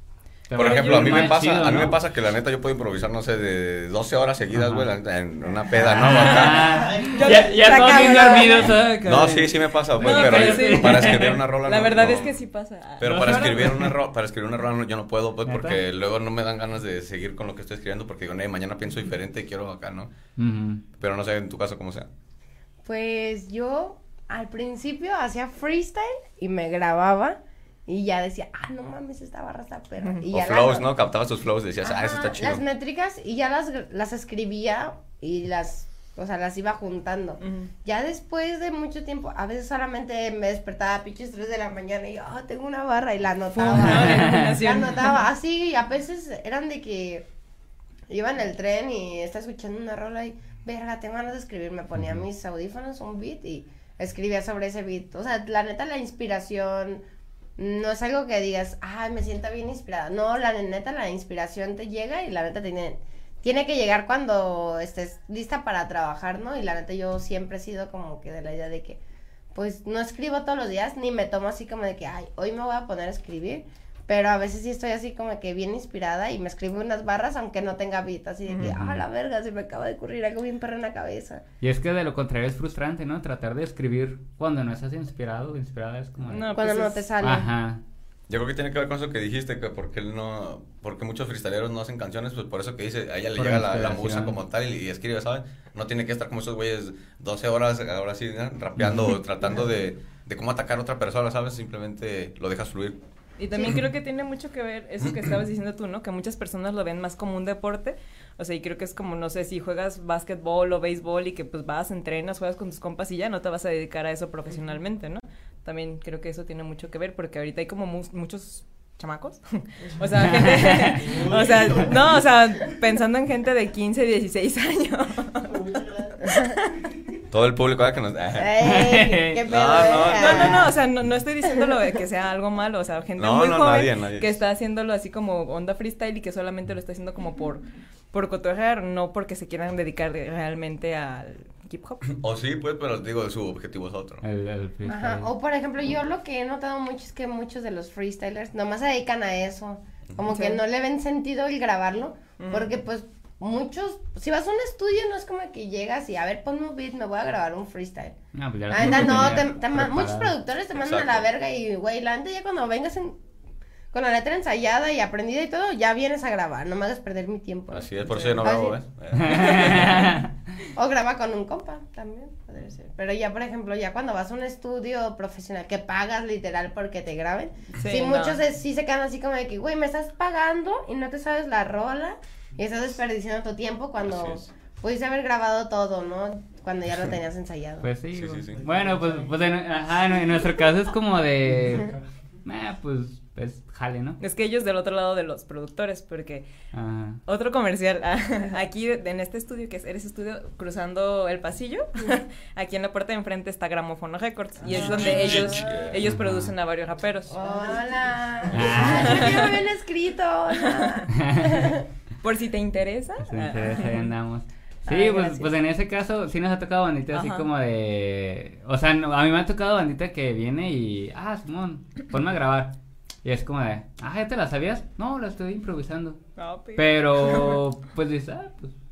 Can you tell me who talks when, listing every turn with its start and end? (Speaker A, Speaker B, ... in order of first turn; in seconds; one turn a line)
Speaker A: 0.5-2.0
Speaker B: 0.5-6.9
Speaker A: 4.5-4.9
Speaker A: 5.7-11.4
Speaker C: 7.0-8.8
Speaker B: 9.0-12.3
Speaker D: 10.0-13.8
Speaker B: 13.0-20.1
Speaker A: 13.1-13.9
Speaker A: 15.4-15.8
Speaker A: 20.4-20.8
Speaker B: 21.0-22.1
Speaker C: 22.8-30.9
Speaker B: 30.3-32.6
Speaker C: 31.8-47.2
Speaker D: 37.4-37.7
Speaker D: 43.5-45.2
Speaker A: 44.1-44.4
Speaker C: 48.1-57.0
Speaker A: 52.0-52.2
Speaker C: 57.6-69.0
Speaker C: 69.5-81.4
Speaker A: 78.6-79.0
Speaker A: 81.6-86.5
Speaker D: 86.3-87.0
Speaker C: 86.5-87.5
Speaker A: 87.2-87.8
Speaker B: 88.3-103.0
Speaker A: 93.3-94.3
Speaker D: 103.4-125.7
Speaker A: 120.2-121.1
Speaker D: 126.2-126.6
Speaker B: 127.3-128.5
Speaker C: 128.3-130.7
Speaker A: 128.6-129.4
Speaker B: 129.4-130.7
Speaker D: 130.1-142.0
Speaker C: 131.4-131.9
Speaker B: 133.2-134.4
Speaker B: 142.1-144.2
Speaker A: 144.2-145.3
Speaker C: 144.9-158.2
Speaker D: 150.2-150.6
Speaker D: 152.4-152.7
Speaker A: 158.3-160.3
Speaker C: 158.7-163.2
Speaker B: 160.7-161.2
Speaker C: 163.9-167.9
Speaker B: 167.7-170.0
Speaker D: 168.1-168.4
Speaker C: 168.4-168.8
Speaker A: 169.2-170.4
Speaker C: 170.7-187.9
Speaker D: 177.8-178.4
Speaker B: 184.1-184.4
Speaker A: 187.8-191.9
Speaker B: 188.1-188.8
Speaker A: 192.4-194.2
Speaker D: 194.2-196.4
Speaker A: 196.7-197.2
Speaker D: 197.2-207.7
Speaker B: 204.6-206.0
Speaker C: 204.9-205.6
Speaker A: 206.0-206.5
Speaker C: 207.3-211.9
Speaker A: 208.5-209.4
Speaker D: 208.7-209.6
Speaker D: 210.6-211.0
Speaker A: 211.2-211.7
Speaker D: 212.2-214.1
Speaker A: 213.2-226.2
Speaker C: 214.9-215.4
Speaker D: 217.1-217.5
Speaker D: 226.3-227.6
Speaker A: 226.8-228.7